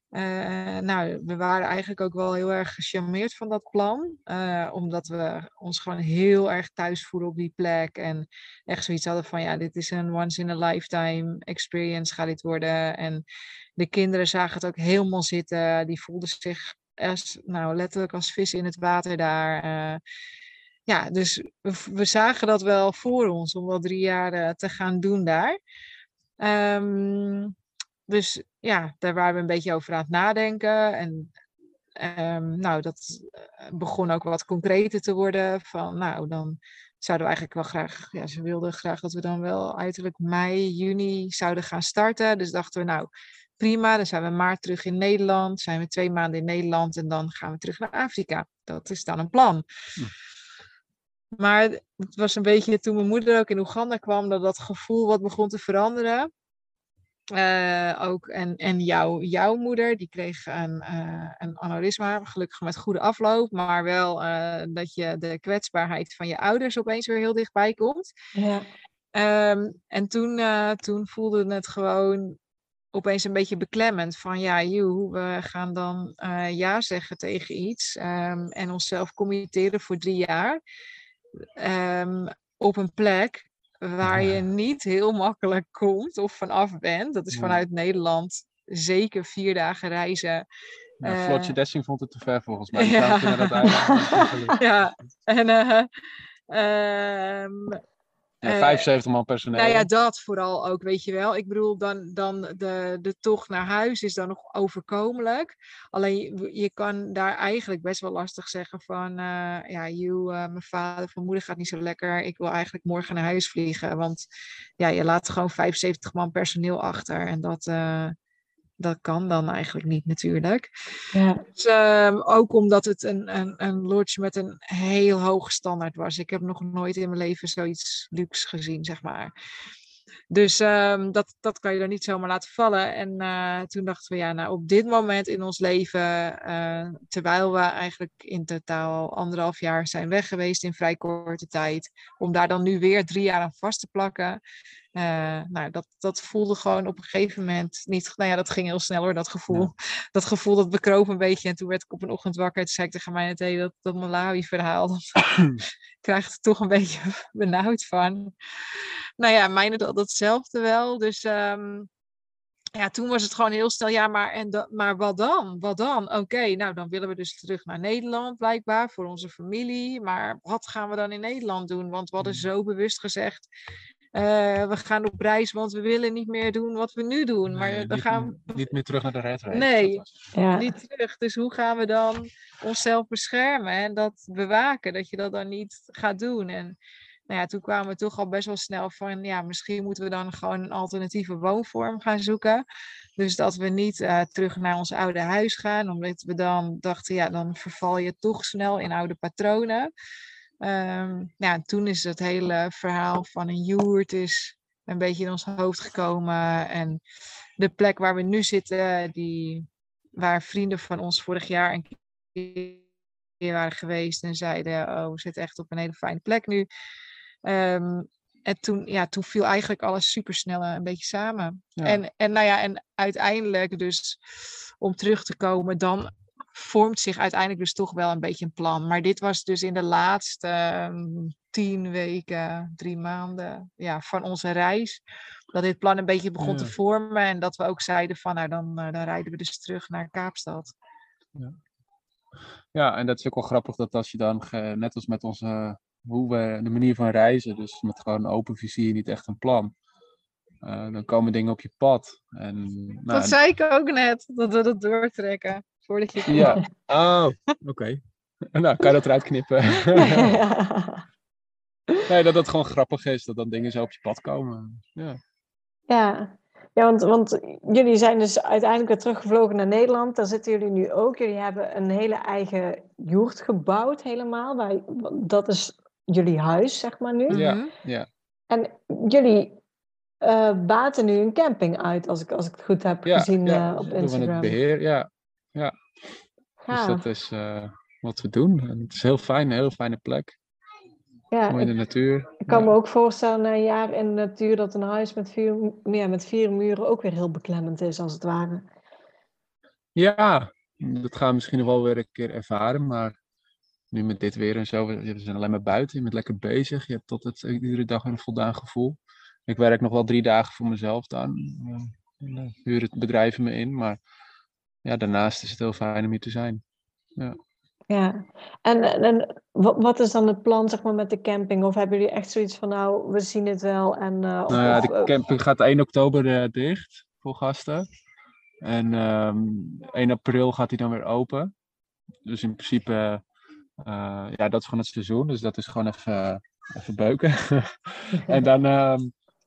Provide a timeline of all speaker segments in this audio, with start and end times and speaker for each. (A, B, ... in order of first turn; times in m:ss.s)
0:00.1-0:13.2 A
0:13.8-0:20.0 A
0:20.9-0:25.6 A
0:26.4-0:27.5 A
0:28.1-0:31.3 A
0:32.0-0:43.1 A
0:43.6-0:49.6 A
0:51.4-0:56.3 A
0:57.3-1:08.1 A
1:08.4-1:08.7 B
1:09.2-1:12.4 A
1:12.9-1:20.6 A
1:21.6-1:30.4 A
1:24.0-1:24.4 C
1:27.3-1:27.6 C
1:31.0-1:34.6 C
1:31.0-1:31.5 A
1:32.8-1:33.8 A
1:33.8-1:34.5 B
1:34.6-1:35.9 A
1:36.5-1:37.8 A
1:38.4-1:39.9 C
1:38.4-1:38.9 A
1:39.6-1:54.2 A
1:54.8-1:58.1 A
1:58.8-2:00.7 A
2:01.1-2:01.4 B
2:01.6-2:09.3 A
2:10.3-2:24.4 A
2:25.0-2:35.0 A
2:35.6-2:38.3 A
2:39.2-2:41.9 A
2:42.8-2:53.5 A
2:54.1-2:58.7 A
2:57.5-3:00.1 C
2:59.5-3:00.0 A
3:00.3-3:00.7 B
3:00.5-3:06.8 A
3:07.3-3:12.6 A
3:13.2-3:19.9 A
3:20.6-3:27.0 A
3:27.6-3:32.8 A
3:33.4-3:36.7 A
3:37.4-3:44.2 A
3:44.8-3:55.0 A
3:55.5-4:00.7 A
3:56.4-3:56.7 C
4:02.7-4:09.7 C
4:10.6-4:13.4 C
4:13.1-4:16.6 A
4:16.3-4:18.0 C
4:18.5-4:20.4 C
4:20.0-4:21.0 B
4:22.1-4:25.2 C
4:25.9-4:37.4 B
4:37.3-4:37.7 A
4:37.3-4:38.1 C
4:38.5-4:39.6 B
4:40.2-4:44.6 B
4:43.0-4:45.8 C
4:46.7-4:47.0 B
4:46.7-4:50.4 C
4:51.3-4:51.7 B
4:51.5-4:52.7 C
4:52.4-4:58.7 B
5:00.0-5:03.2 C
5:03.9-5:14.0 C
5:14.8-5:16.6 C
5:17.9-5:25.1 B
5:24.5-5:27.9 C
5:28.6-5:31.5 C
5:32.2-5:33.2 C
5:33.8-5:39.1 C